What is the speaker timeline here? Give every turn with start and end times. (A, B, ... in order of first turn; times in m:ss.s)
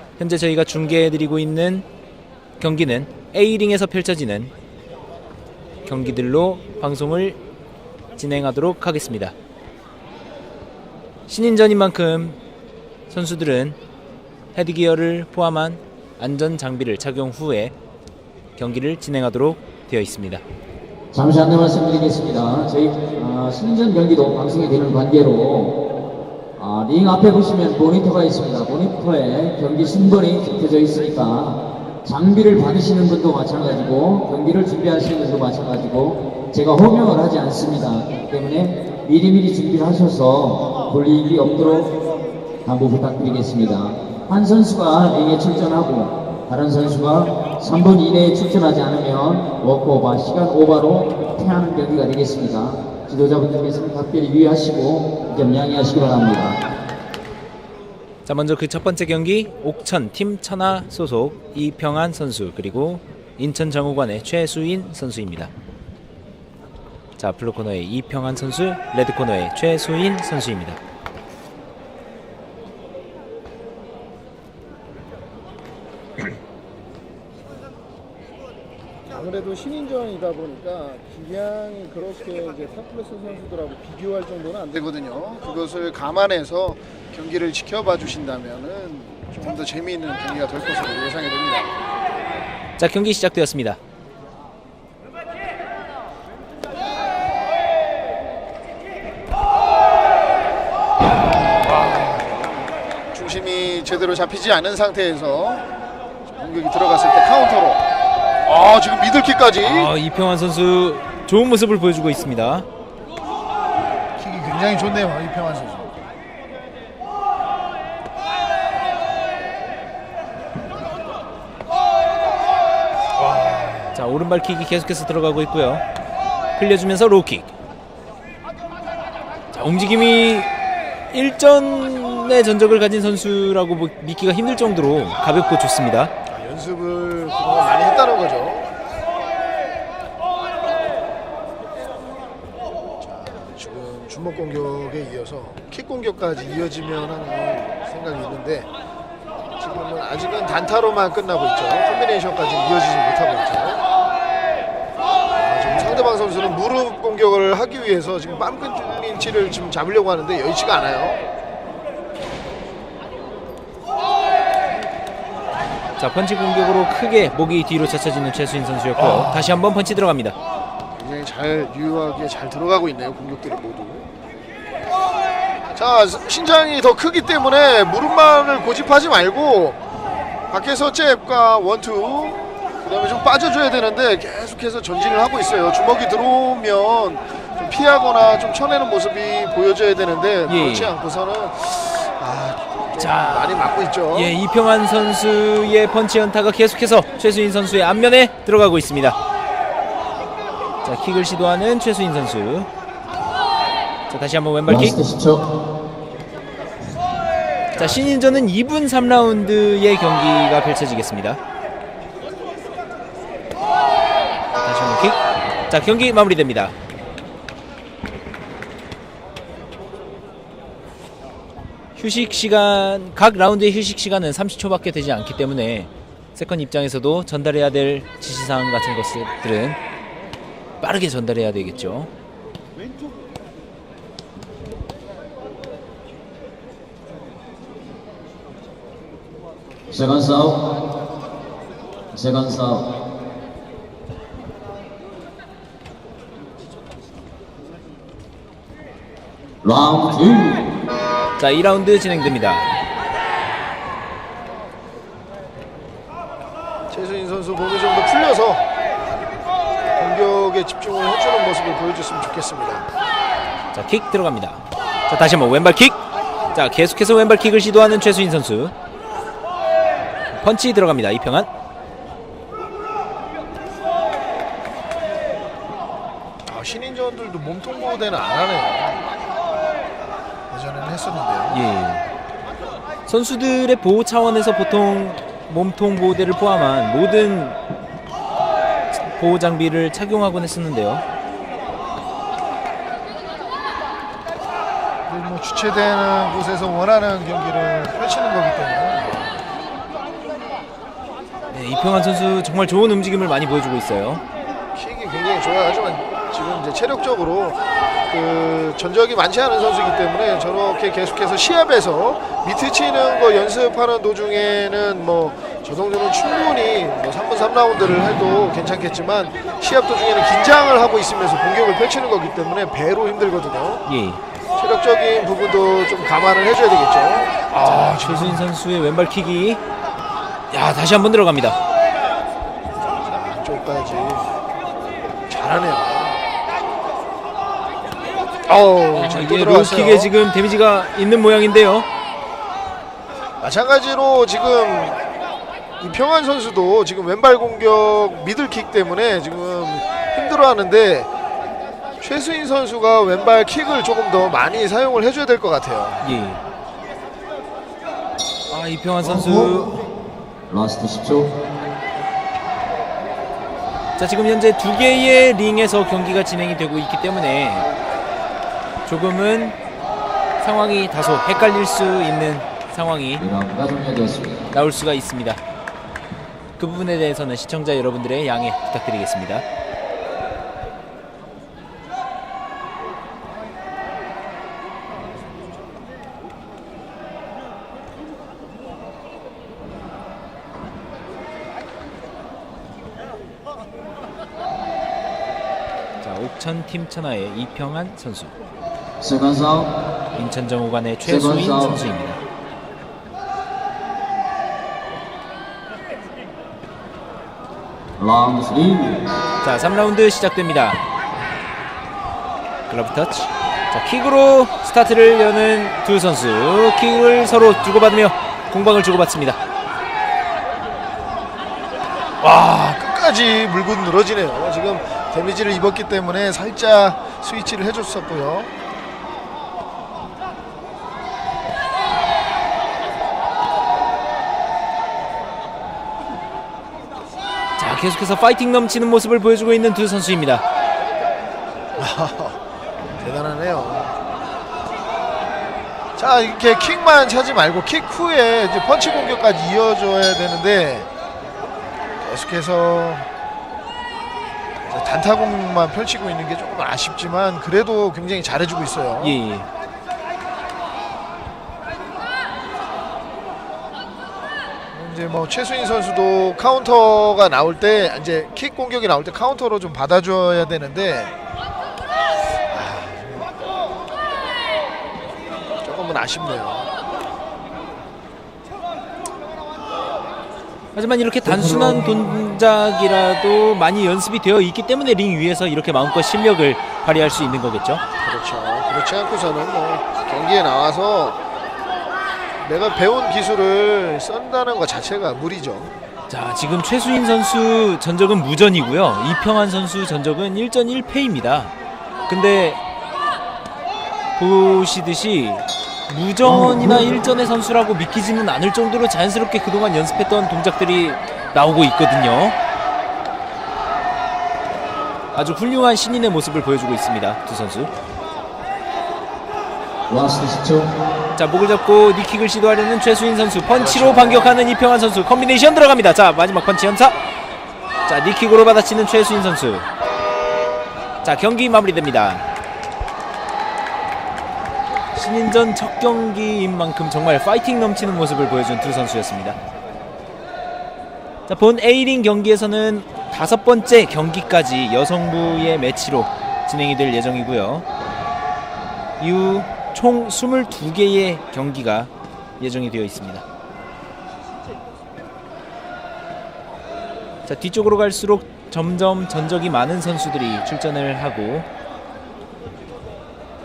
0:00.2-0:01.9 A
0:02.6-0:04.5 A
0:05.8-0:07.4 A
0:08.2-0:09.4 A
0:11.3-0:12.4 A
0:13.1-0:13.8 A
0:14.6-0:17.7 A
0:18.6-0:20.4 A
0:21.1-0:25.8 B
0:26.6-0:41.9 B
0:42.6-0:56.6 B
0:58.3-1:05.5 A
1:07.2-1:10.8 A
1:19.1-1:31.7 C
1:32.8-1:33.8 A
1:41.6-1:42.5 C
1:43.1-1:45.7 C
1:46.3-1:47.8 C
1:48.4-1:49.9 C
1:49.6-1:52.7 A
1:54.2-1:56.0 C
2:03.2-2:04.0 C
2:03.9-2:05.8 A
2:06.6-2:07.5 A
2:09.5-2:10.5 A
2:11.1-2:16.1 A
2:16.3-2:18.7 C
2:23.0-2:28.7 C
2:29.6-2:33.8 C
2:35.4-2:41.2 C
2:46.0-2:50.4 A
2:49.0-2:49.6 C
2:51.0-2:54.1 C
2:55.8-2:59.8 C
3:00.5-3:14.4 C
3:10.5-3:11.0 A
3:13.0-3:19.2 A
3:20.8-3:22.7 A
3:24.1-3:25.0 A
3:24.7-3:25.5 B
3:27.7-3:28.1 C
3:27.8-3:31.4 A
3:34.6-3:35.2 A
3:35.7-3:36.8 A
3:42.0-3:49.8 A
3:50.8-3:52.1 A
3:59.9-4:00.7 B
4:02.1-4:02.9 B
4:09.6-4:10.7 B
4:11.4-4:12.7 A
4:16.9-4:18.7 C
4:19.9-4:22.9 C
4:23.7-4:26.0 A
4:26.5-4:28.8 A
4:30.3-4:31.5 A
4:36.5-4:39.0 C
4:40.5-4:41.6 C
4:41.5-4:42.0 A
4:43.1-4:47.6 A
4:48.9-4:51.0 A
4:55.1-4:59.4 C
5:01.5-5:04.2 A
5:04.8-5:23.8 C
5:23.9-5:24.2 A
5:24.6-5:28.4 C
5:27.6-5:29.6 A
5:30.5-5:31.6 A
5:33.0-5:34.3 C
5:35.3-5:36.2 C
5:38.4-5:40.1 C
5:38.9-5:41.9 A
5:43.4-5:45.0 C
5:45.8-5:51.1 C
5:52.0-5:56.1 C
5:56.0-5:56.4 A
5:58.5-5:59.8 A
5:59.0-5:59.7 C
6:00.5-6:01.4 B
6:04.0-6:07.7 A
6:08.8-6:09.6 A
6:10.4-6:13.2 A
6:13.2-6:14.5 B
6:14.5-6:15.4 A
6:16.6-6:19.4 A
6:36.0-6:38.3 A
6:39.0-6:39.8 B
6:40.1-6:42.2 A
6:41.0-6:41.9 B
6:48.0-6:49.1 B
6:49.4-6:50.8 A
6:52.7-6:59.4 A
7:02.2-7:08.5 C
7:17.6-7:20.4 A
7:21.8-7:22.4 C
7:23.0-7:23.9 C
7:26.0-7:30.9 C
7:32.0-7:33.1 C
7:34.7-7:39.2 C
7:39.0-7:39.5 A
7:44.7-7:51.1 C
7:52.5-7:53.4 C
7:55.6-7:56.7 C
8:00.8-8:07.8 A
8:01.2-8:02.2 B
8:08.0-8:11.2 C
8:12.4-8:15.7 C
8:16.1-8:21.5 A
8:22.1-8:22.6 A
8:24.2-8:32.4 A
8:26.2-8:27.0 B
8:35.1-8:37.7 A
8:39.9-8:40.7 B
8:41.2-8:47.0 A
8:43.7-8:44.1 C
8:44.0-8:44.3 B
8:47.9-8:49.7 A
8:51.0-8:52.2 A
8:54.9-8:59.4 A
9:01.3-9:07.7 A
9:09.0-9:13.2 A
9:17.3-9:21.5 A